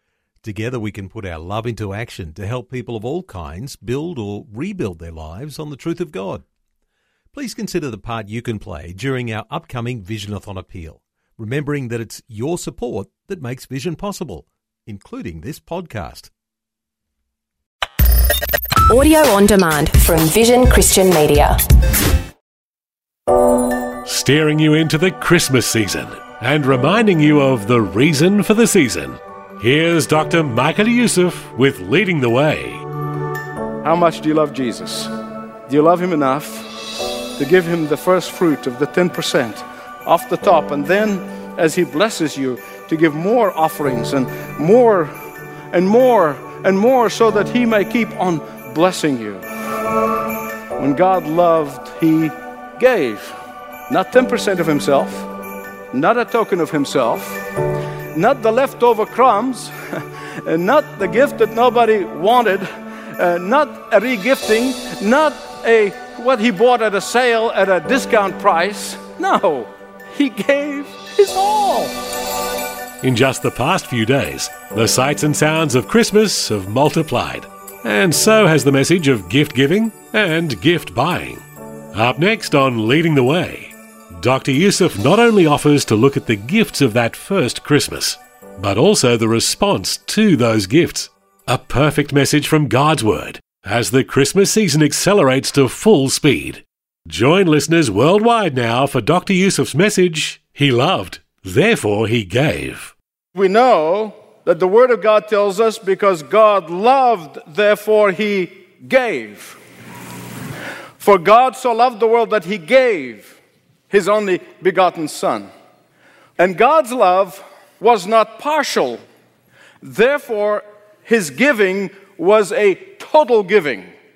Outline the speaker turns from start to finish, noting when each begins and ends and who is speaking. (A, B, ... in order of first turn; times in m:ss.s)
0:00.4-0:06.4 A
0:07.3-0:16.3 A
0:18.9-0:21.6 B
0:24.0-0:32.8 C
0:33.8-0:35.1 D
0:35.7-0:36.7 D
0:37.4-0:45.1 D
0:45.7-0:49.4 D
0:50.8-0:53.3 D
0:53.9-0:55.3 D
0:55.9-0:57.4 D
0:58.1-0:59.7 D
1:00.4-1:11.9 D
1:13.0-1:21.4 C
1:21.9-1:42.9 C
1:43.3-1:49.6 D
1:51.0-1:53.3 D
1:53.9-1:55.5 D
1:56.4-1:59.0 D
1:59.8-2:03.9 D